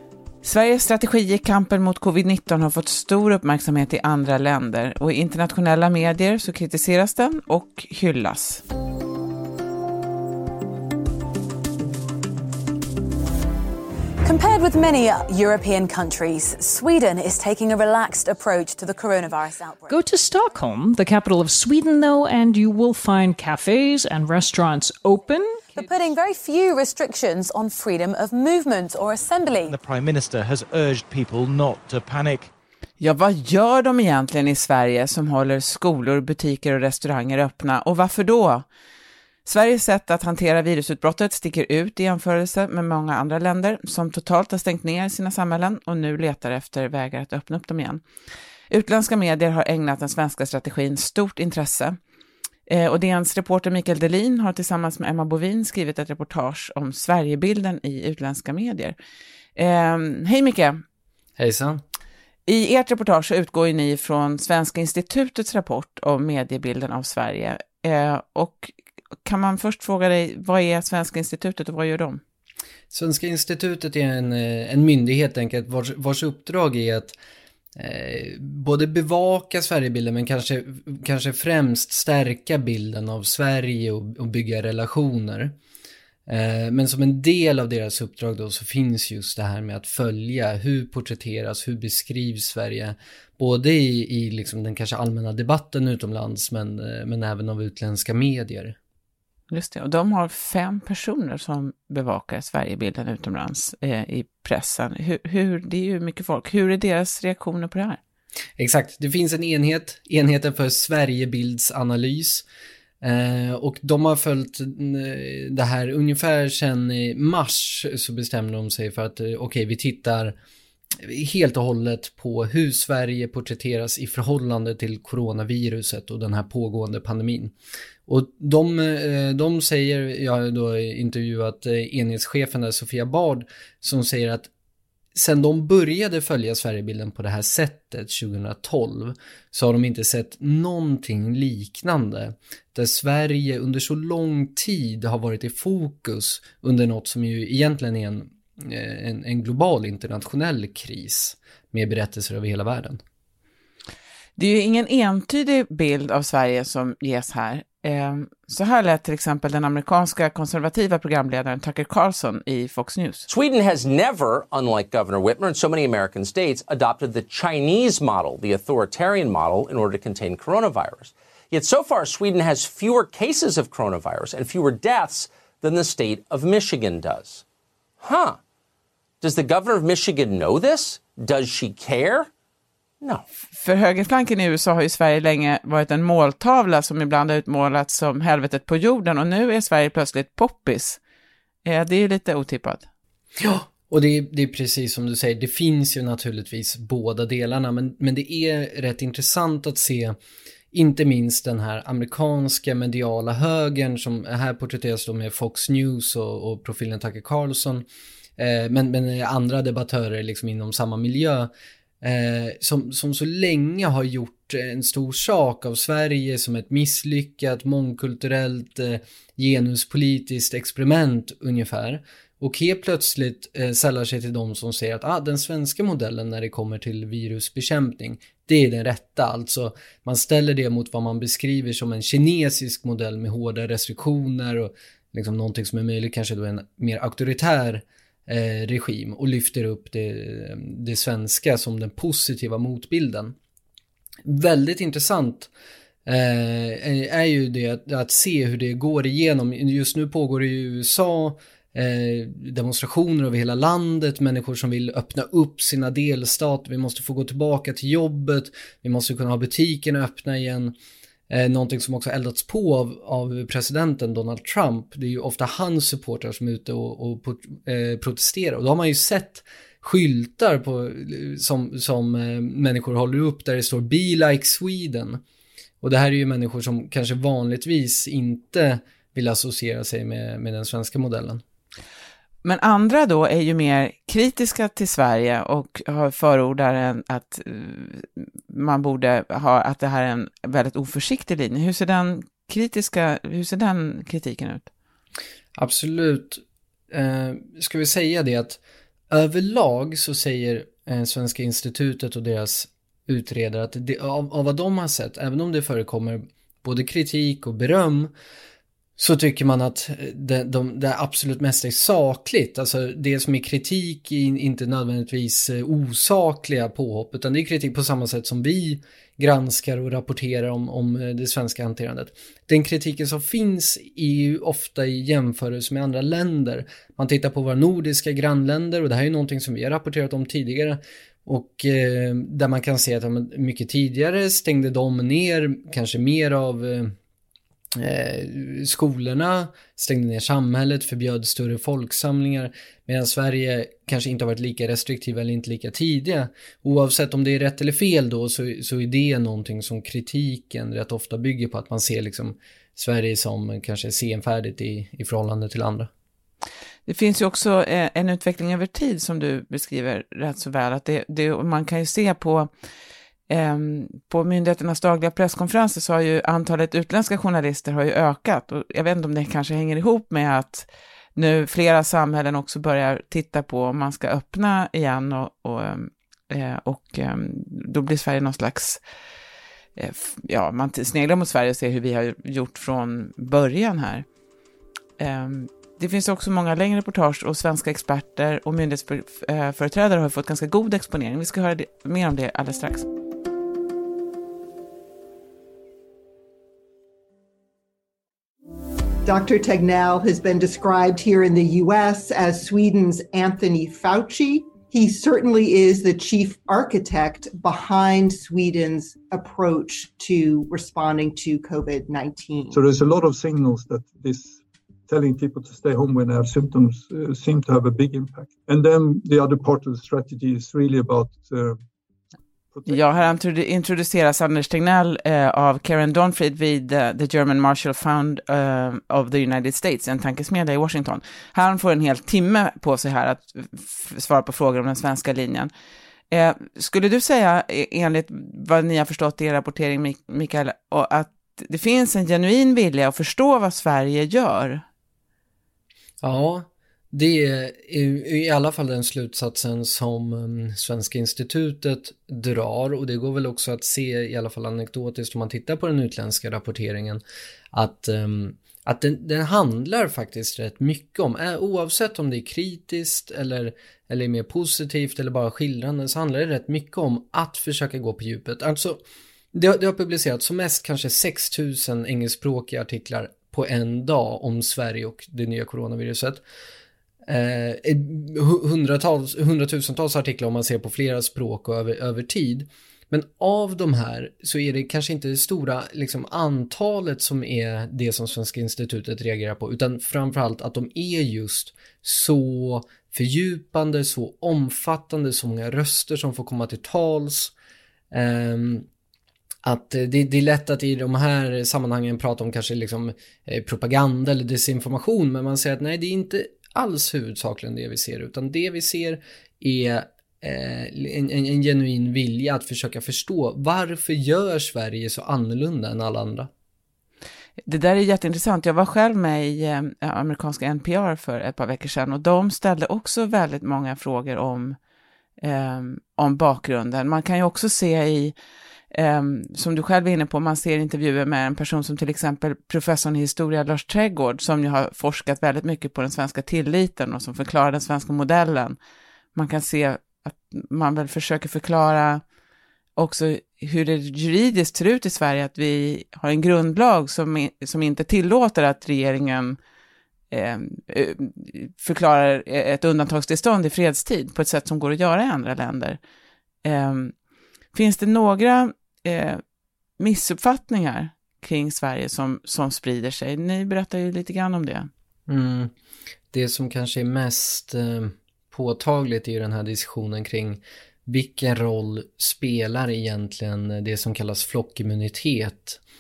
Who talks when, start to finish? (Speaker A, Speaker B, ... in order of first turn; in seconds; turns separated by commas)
Speaker A: 0.4-8.6, Speaker B: 14.2-20.0, Speaker C: 19.9-26.1, Speaker B: 25.8-29.8, Speaker D: 29.7-32.5, Speaker A: 33.0-38.6, Speaker A: 39.4-48.0, Speaker A: 48.7-52.0, Speaker A: 52.7-59.0, Speaker A: 59.5-60.8, Speaker E: 61.4-61.8, Speaker A: 62.5-72.2, Speaker E: 72.9-77.2, Speaker E: 77.8-85.5, Speaker E: 86.3-98.8, Speaker A: 99.5-108.0, Speaker E: 108.6-112.4, Speaker E: 113.0-120.3, Speaker E: 121.0-127.5, Speaker E: 128.1-134.5, Speaker E: 135.1-153.0, Speaker A: 154.4-163.2, Speaker F: 163.3-177.4, Speaker F: 178.0-178.4, Speaker F: 179.2-182.3, Speaker A: 183.5-191.0, Speaker A: 191.6-192.9, Speaker E: 193.4-200.2, Speaker E: 200.7-207.8, Speaker E: 208.4-211.5, Speaker E: 212.0-243.3, Speaker E: 244.2-245.5, Speaker E: 246.1-260.7, Speaker E: 261.3-275.2, Speaker E: 275.8-281.4, Speaker A: 282.4-294.7, Speaker E: 295.6-308.1, Speaker E: 309.0-336.9, Speaker E: 337.8-355.9, Speaker A: 356.9-362.5, Speaker A: 363.3-378.8, Speaker A: 379.8-384.1, Speaker A: 385.0-392.9, Speaker G: 399.0-412.6, Speaker H: 412.5-421.6, Speaker H: 422.5-423.0, Speaker A: 422.6-435.5, Speaker A: 436.1-444.6, Speaker E: 446.0-457.0, Speaker E: 457.5-468.8, Speaker E: 469.3-476.2, Speaker E: 477.1-497.3, Speaker E: 497.9-498.6, Speaker E: 499.4-516.3, Speaker A: 517.4-524.6, Speaker A: 525.2-528.1, Speaker A: 528.7-538.6, Speaker A: 539.1-542.0, Speaker A: 542.8-549.4, Speaker A: 550.1-555.8, Speaker A: 556.4-556.9, Speaker A: 557.5-559.2, Speaker A: 559.8-564.7, Speaker E: 565.1-565.5, Speaker E: 566.1-575.6